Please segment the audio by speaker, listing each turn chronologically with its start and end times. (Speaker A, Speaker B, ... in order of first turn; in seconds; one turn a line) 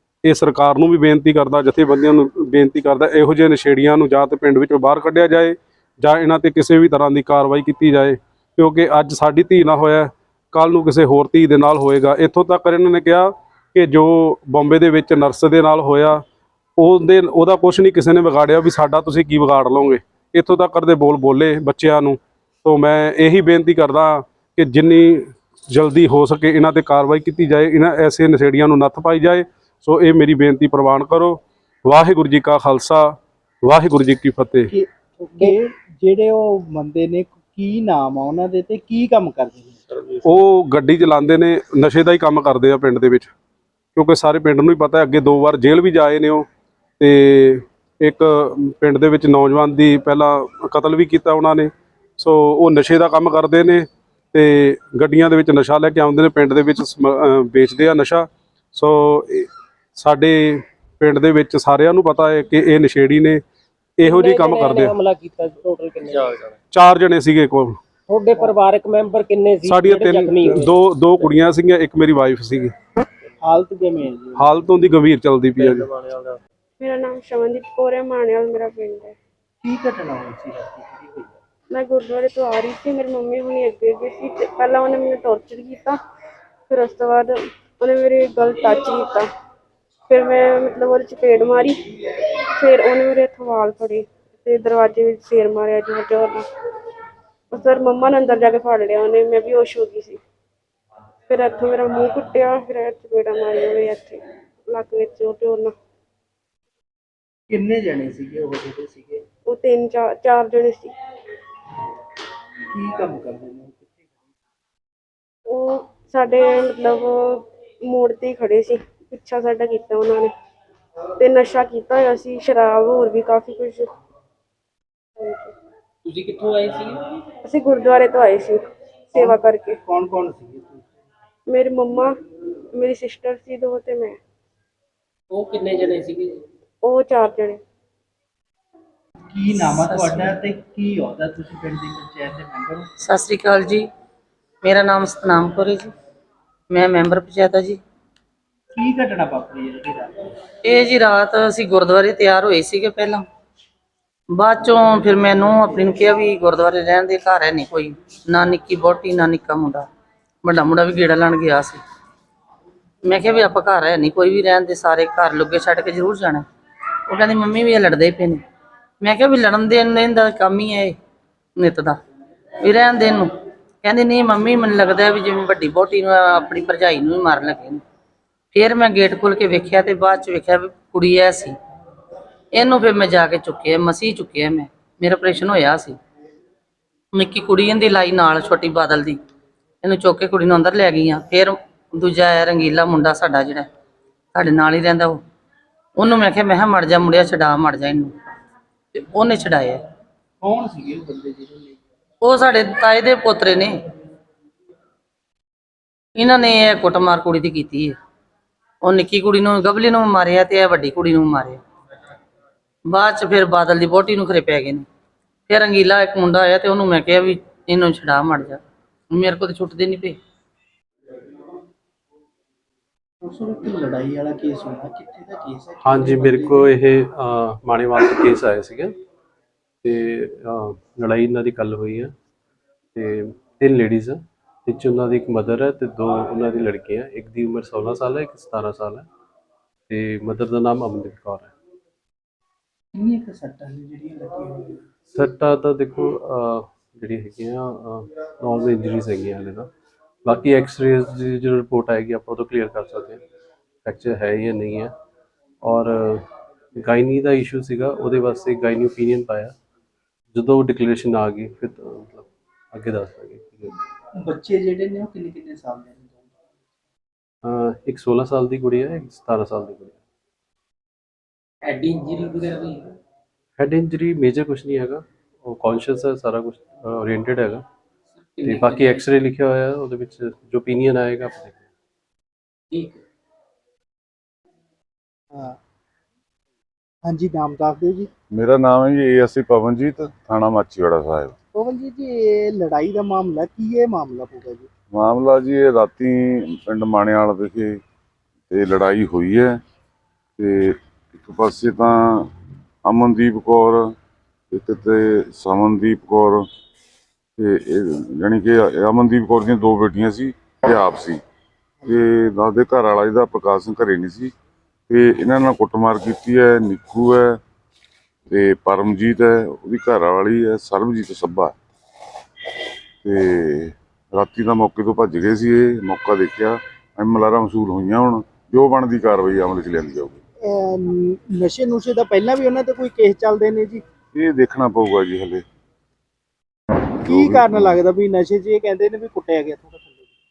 Speaker A: 0.2-16.2
Speaker A: 16.8-33.1
Speaker A: 33.6-34.7
Speaker B: 34.7-39.9
Speaker A: 40.2-43.3
Speaker A: 44.0-46.5
Speaker A: 47.0-63.4
Speaker A: 64.0-65.0
Speaker C: 64.0-66.5
Speaker A: 66.7-67.8
Speaker C: 68.1-70.7
Speaker A: 69.7-72.7
Speaker B: 73.5-74.6
Speaker A: 74.4-76.0
Speaker D: 76.8-79.2
Speaker B: 79.6-81.3
Speaker D: 81.7-86.0
Speaker D: 86.7-89.3
Speaker D: 90.1-91.8
Speaker D: 92.6-96.5
Speaker D: 97.5-100.2
Speaker D: 101.3-105.7
Speaker B: 107.5-109.2
Speaker D: 109.5-110.9
Speaker B: 112.7-113.9
Speaker D: 115.5-120.3
Speaker D: 121.2-123.9
Speaker D: 125.2-125.5
Speaker C: 126.0-127.0
Speaker D: 127.5-128.6
Speaker B: 129.1-130.9
Speaker D: 129.2-129.8
Speaker D: 131.5-132.1
Speaker D: 132.8-134.2
Speaker C: 135.3-136.4
Speaker D: 136.9-137.6
Speaker B: 139.3-142.9
Speaker E: 139.5-140.4
Speaker E: 143.0-143.9
Speaker E: 144.6-145.9
Speaker E: 146.7-147.8
Speaker B: 148.7-150.1
Speaker E: 150.7-153.2
Speaker E: 154.3-159.9
Speaker E: 160.4-161.8
Speaker E: 163.1-166.4
Speaker E: 167.1-168.4
Speaker E: 169.0-171.0
Speaker E: 171.6-172.0
Speaker E: 172.6-173.3
Speaker E: 173.8-177.8
Speaker E: 178.5-181.6
Speaker E: 182.6-186.0
Speaker E: 187.2-189.2
Speaker E: 189.8-193.7
Speaker E: 194.3-195.2
Speaker E: 196.0-198.1
Speaker E: 198.9-199.8
Speaker B: 200.4-201.8
Speaker E: 202.2-203.8
Speaker E: 206.2-207.9
Speaker E: 208.8-211.6
Speaker E: 212.9-214.8
Speaker E: 215.5-218.6
Speaker E: 219.1-220.2
Speaker B: 223.2-226.7
Speaker F: 225.8-229.0
Speaker F: 229.8-232.1
Speaker F: 232.9-239.1
Speaker F: 239.9-241.5
Speaker B: 242.9-244.8
Speaker F: 245.1-249.7
Speaker F: 250.2-253.2
Speaker F: 253.8-254.9
Speaker F: 255.6-259.6
Speaker F: 260.3-263.8
Speaker B: 264.2-266.3
Speaker F: 267.4-270.0
Speaker C: 271.6-272.9
Speaker F: 273.6-277.6
Speaker C: 278.2-279.1
Speaker F: 278.4-281.7
Speaker C: 282.7-283.0
Speaker B: 287.1-288.1
Speaker G: 288.3-291.3
Speaker B: 291.5-294.7
Speaker G: 294.9-297.8
Speaker G: 298.5-299.6
Speaker G: 300.4-302.3
Speaker G: 302.9-303.9
Speaker G: 304.5-306.5
Speaker G: 307.4-311.2
Speaker G: 311.9-314.3
Speaker G: 314.9-317.4
Speaker G: 318.3-321.5
Speaker G: 323.0-330.2
Speaker B: 330.4-333.8
Speaker G: 334.1-335.4
Speaker G: 337.1-337.8
Speaker B: 337.1-340.1